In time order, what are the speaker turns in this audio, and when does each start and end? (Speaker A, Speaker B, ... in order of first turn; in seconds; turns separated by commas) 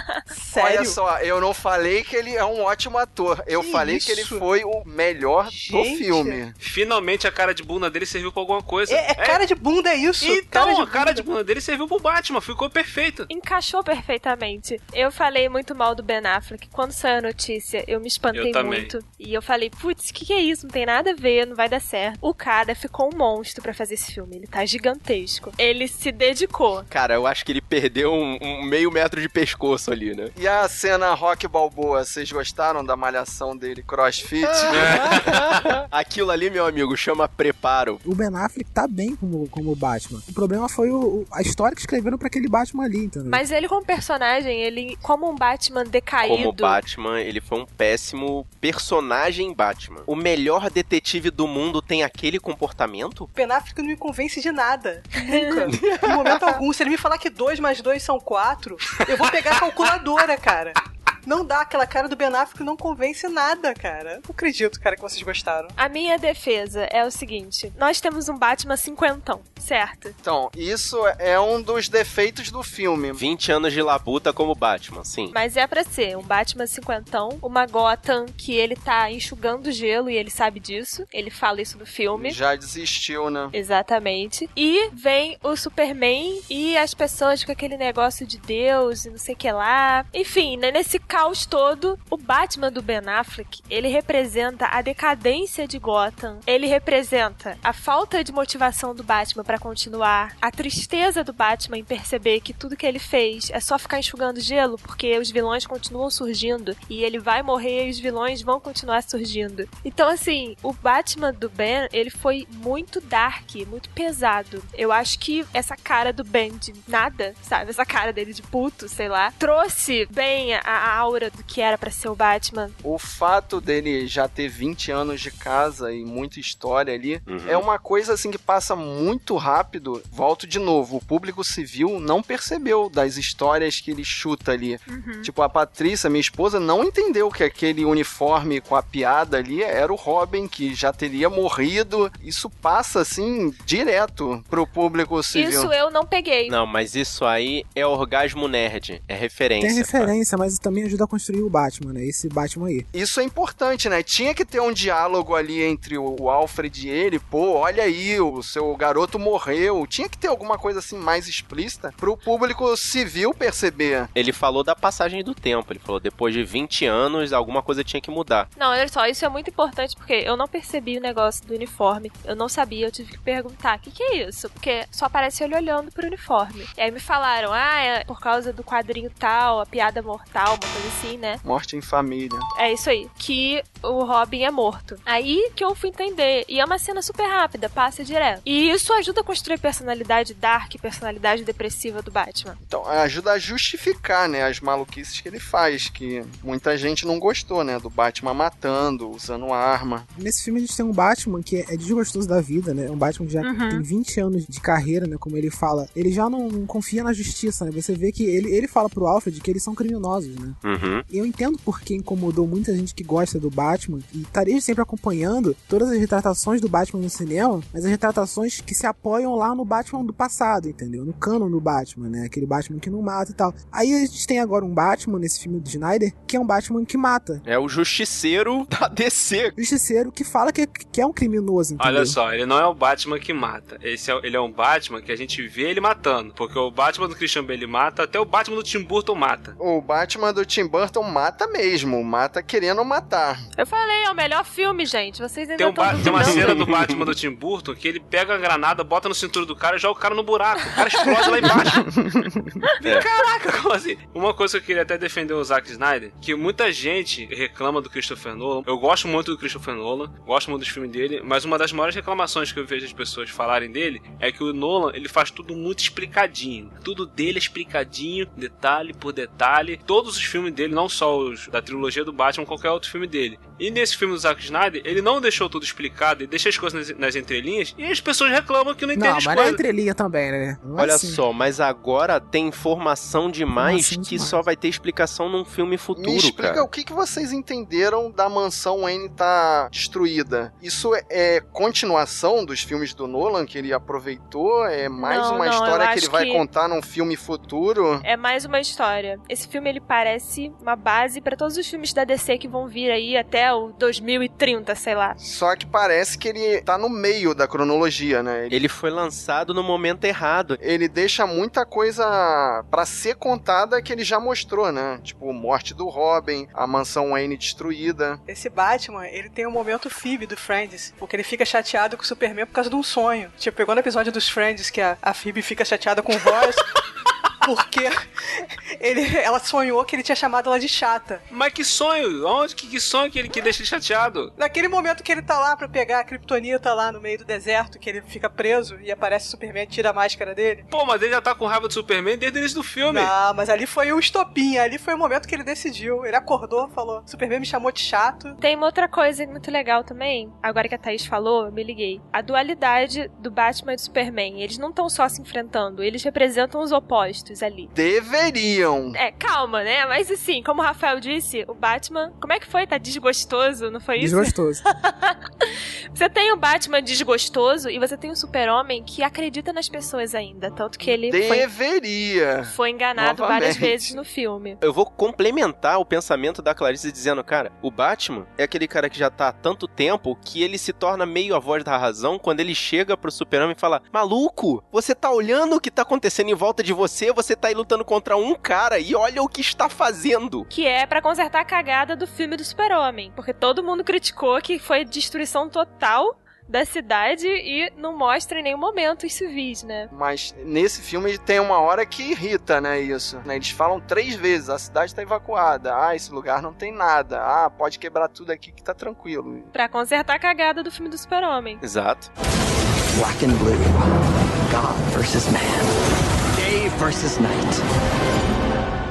Speaker A: 0.3-1.0, Speaker B: 0.6-6.5, Speaker A: 3.5-4.5, Speaker A: 5.5-6.4, Speaker C: 6.6-9.4, Speaker A: 8.9-11.2, Speaker C: 10.2-13.3, Speaker D: 13.3-26.9, Speaker C: 18.3-18.9, Speaker E: 26.9-30.3, Speaker B: 30.4-35.2, Speaker E: 34.4-38.0, Speaker C: 34.7-35.6, Speaker F: 38.0-43.4, Speaker D: 43.3-46.8, Speaker E: 46.2-53.3, Speaker A: 53.3-65.7, Speaker D: 55.2-55.7, Speaker E: 55.7-56.6, Speaker D: 65.8-70.2, Speaker B: 70.2-73.2, Speaker E: 73.2-75.3, Speaker D: 75.3-82.4, Speaker B: 82.1-83.5, Speaker D: 83.5-122.8, Speaker B: 122.8-145.7, Speaker E: 127.2-127.6, Speaker D: 134.9-135.3, Speaker D: 145.3-146.6, Speaker E: 146.5-150.1, Speaker F: 149.6-152.9, Speaker B: 152.9-164.1, Speaker E: 164.1-168.5, Speaker D: 168.6-181.4, Speaker B: 181.4-182.5, Speaker D: 182.5-192.6, Speaker B: 192.7-200.1, Speaker F: 200.1-227.4, Speaker D: 203.4-203.8, Speaker E: 210.6-211.0, Speaker E: 227.4-229.6, Speaker F: 229.6-232.2, Speaker C: 231.8-239.6, Speaker B: 239.6-243.4, Speaker D: 243.6-246.5, Speaker C: 245.6-251.9, Speaker E: 246.0-247.1, Speaker B: 252.0-252.5, Speaker C: 252.8-279.6, Speaker E: 252.8-253.1, Speaker F: 278.9-281.2, Speaker E: 280.8-286.7, Speaker F: 283.6-284.4, Speaker B: 285.9-298.0, Speaker D: 295.0-296.4, Speaker D: 298.0-305.2, Speaker B: 305.2-308.6, Speaker E: 308.5-310.6, Speaker B: 310.6-318.2, Speaker A: 318.3-326.7, Speaker A: 327.4-331.2, Speaker C: 331.3-334.3, Speaker A: 334.4-340.6, Speaker C: 340.7-343.1, Speaker A: 342.9-348.4, Speaker D: 348.4-357.7, Speaker B: 357.7-359.0, Speaker D: 358.9-371.4, Speaker F: 364.0-364.6, Speaker B: 371.1-374.0, Speaker D: 372.4-374.6, Speaker E: 374.6-390.5, Speaker D: 390.5-399.9, Speaker B: 399.9-409.5, Speaker D: 409.5-411.6, Speaker E: 411.6-412.1, Speaker G: 412.9-413.8, Speaker G: 414.4-415.8, Speaker G: 416.3-417.6